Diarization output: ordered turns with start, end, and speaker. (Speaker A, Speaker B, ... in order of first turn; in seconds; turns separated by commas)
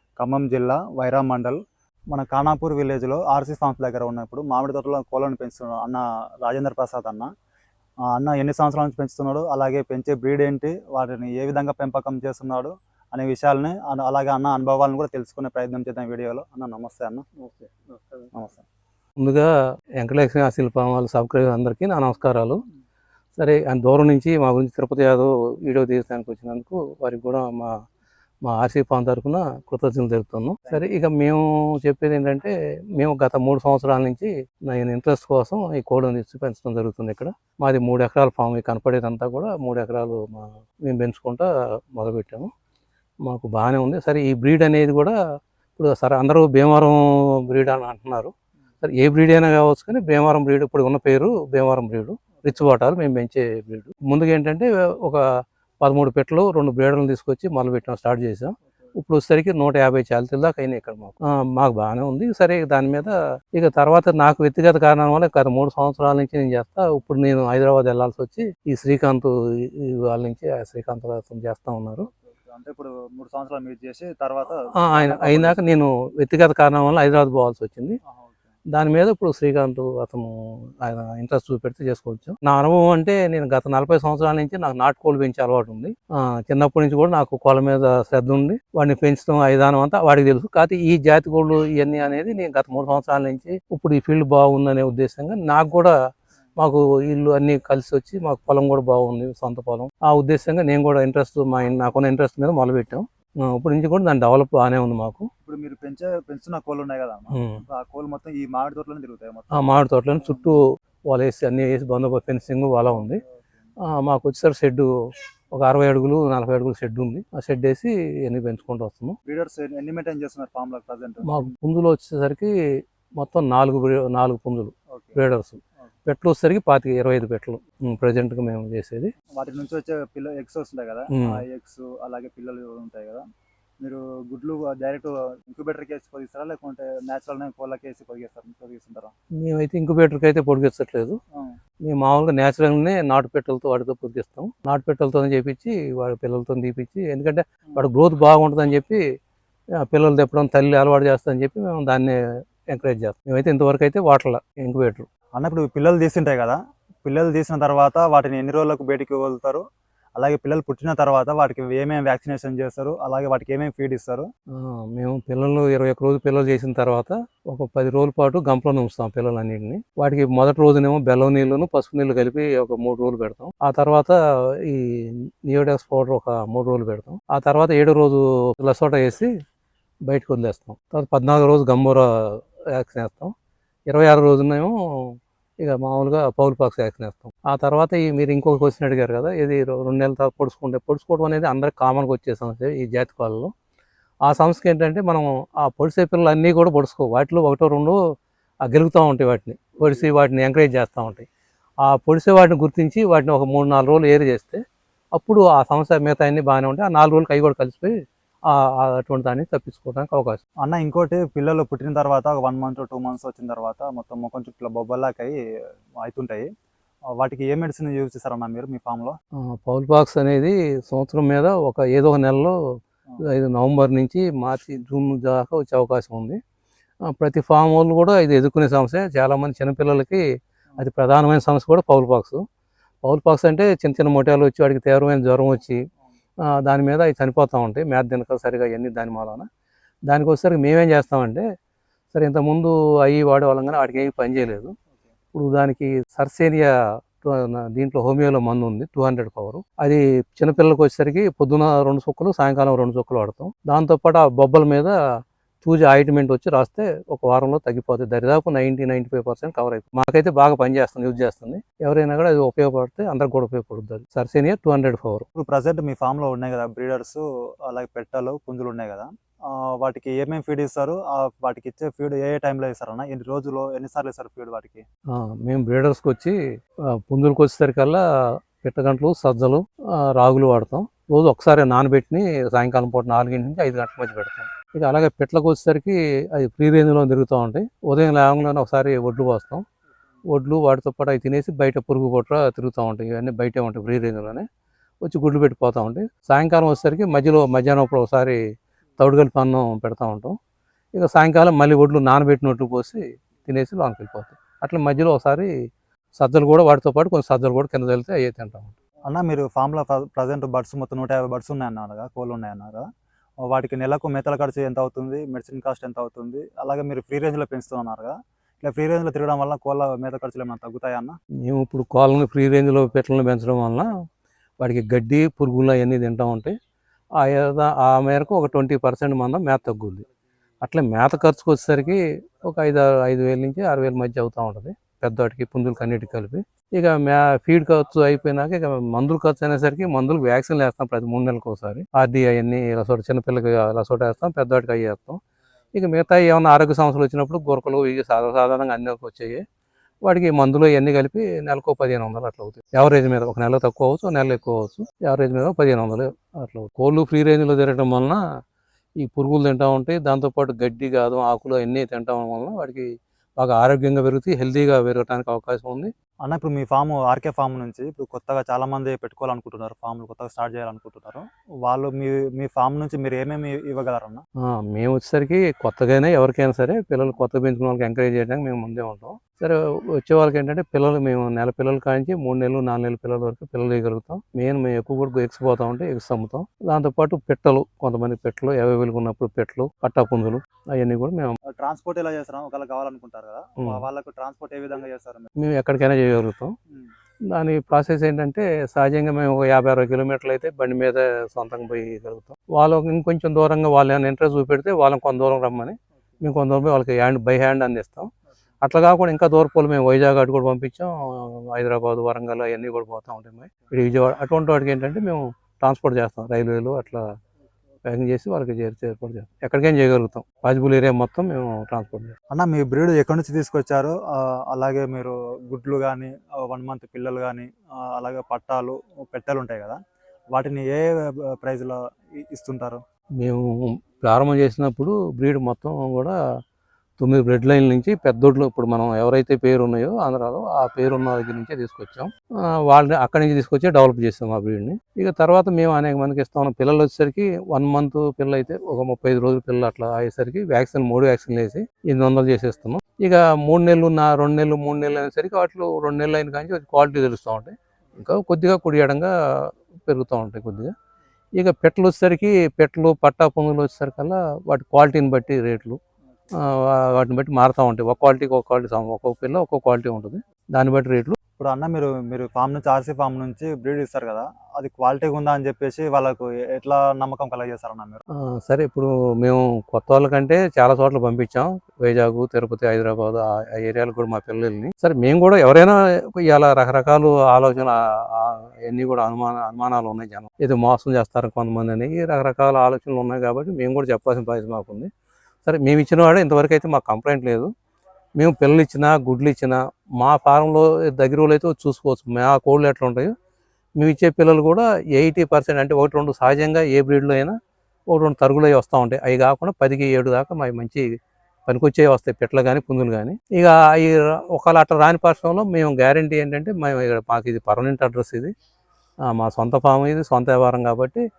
Speaker A: 0.2-1.6, Speaker A: 2.1-7.3, Speaker A: 8.1-17.2, Speaker B: 17.4-18.2, Speaker A: 18.3-18.6, Speaker B: 19.2-22.6, Speaker B: 23.4-27.7, Speaker B: 28.4-42.5, Speaker A: 30.6-30.9, Speaker B: 43.2-45.1, Speaker B: 45.8-55.2, Speaker B: 55.8-72.0, Speaker A: 72.5-75.6, Speaker B: 74.8-78.0, Speaker A: 78.1-78.4, Speaker B: 78.7-95.9, Speaker B: 96.6-105.3, Speaker A: 105.4-109.6, Speaker B: 107.3-107.6, Speaker B: 109.5-113.2, Speaker B: 113.9-114.9, Speaker B: 115.5-119.2, Speaker A: 119.2-121.5, Speaker B: 121.2-122.5, Speaker B: 123.2-129.1, Speaker A: 129.3-133.2, Speaker A: 133.8-139.1, Speaker B: 139.4-141.2, Speaker B: 141.8-149.0, Speaker B: 149.8-152.2, Speaker B: 152.7-155.1, Speaker A: 155.3-159.6, Speaker A: 160.2-164.2, Speaker B: 164.6-179.3, Speaker B: 180.1-183.3, Speaker B: 183.9-193.5, Speaker B: 194.2-197.9, Speaker B: 198.7-201.3, Speaker B: 201.8-204.6, Speaker B: 205.2-207.9, Speaker B: 208.5-210.4, Speaker A: 210.6-215.4, Speaker A: 216.0-216.4, Speaker A: 217.2-219.1, Speaker B: 219.6-222.5, Speaker B: 223.3-226.4, Speaker B: 227.1-230.2, Speaker B: 230.8-232.4, Speaker B: 233.0-235.8, Speaker B: 236.6-239.4, Speaker B: 240.1-241.4, Speaker B: 242.1-244.7, Speaker B: 245.3-246.7, Speaker B: 247.2-254.9, Speaker B: 255.6-265.2, Speaker A: 265.3-274.8, Speaker B: 275.1-276.3, Speaker B: 277.1-278.0, Speaker B: 278.6-289.6, Speaker B: 290.3-294.4, Speaker B: 295.0-298.4, Speaker B: 299.0-300.3, Speaker B: 300.9-305.5, Speaker B: 306.1-308.7, Speaker A: 309.1-312.8, Speaker A: 313.5-321.1, Speaker B: 321.4-323.9, Speaker B: 324.6-326.5, Speaker B: 327.2-330.0, Speaker B: 330.6-345.2, Speaker B: 345.7-349.4, Speaker B: 350.0-358.2, Speaker B: 359.0-362.8, Speaker B: 363.4-365.9, Speaker A: 366.2-374.2, Speaker B: 374.5-391.4, Speaker A: 391.5-395.3, Speaker B: 395.4-396.5, Speaker B: 397.3-408.1, Speaker B: 408.6-417.0, Speaker B: 417.8-422.1, Speaker A: 422.3-429.8, Speaker A: 430.3-432.8, Speaker B: 433.2-436.1, Speaker B: 437.0-442.1, Speaker B: 442.7-460.7, Speaker B: 461.4-465.8, Speaker B: 466.4-471.1, Speaker A: 471.4-478.0, Speaker B: 478.3-494.9, Speaker B: 495.4-497.5, Speaker B: 498.2-503.1, Speaker B: 503.8-507.3, Speaker B: 507.9-510.8, Speaker B: 511.4-518.3, Speaker B: 519.1-521.0